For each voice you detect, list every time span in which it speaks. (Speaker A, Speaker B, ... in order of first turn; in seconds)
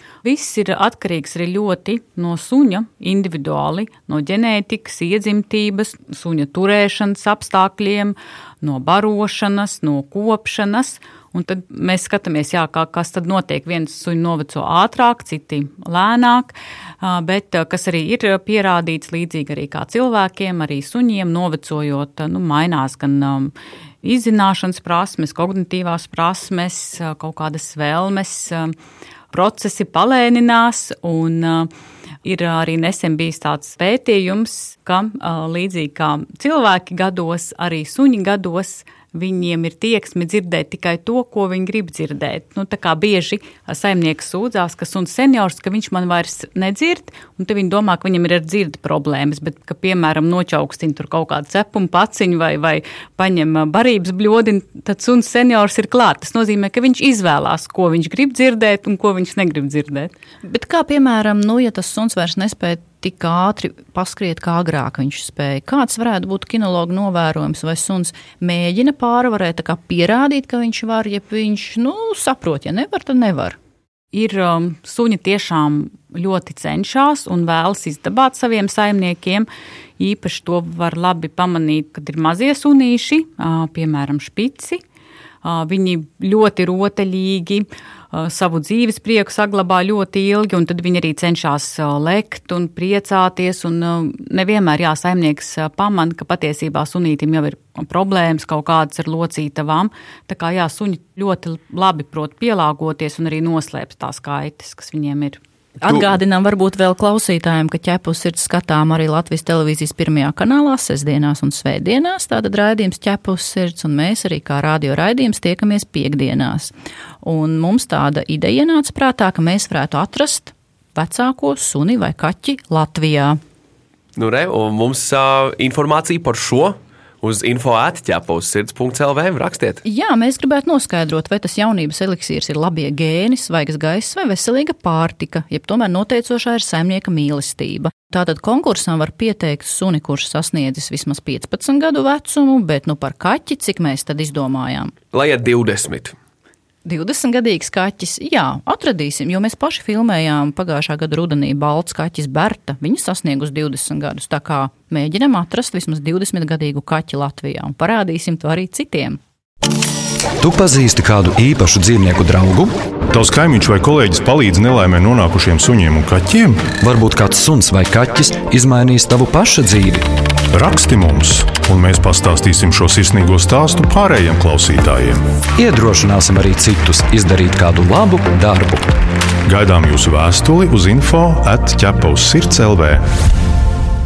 Speaker A: 0.2-28.7, 29.3-31.7, 32.2-60.1, 74.1-79.5, 80.0-84.8, 85.4-105.4
Speaker B: 60.4-73.6, 105.8-123.4, 129.8-144.9, 146.8-159.2
Speaker C: 124.2-129.8, 145.1-146.2
Speaker D: 160.4-162.8, 166.8-170.1, 175.6-178.9
Speaker E: 163.1-166.7, 170.5-175.2, 179.4-183.0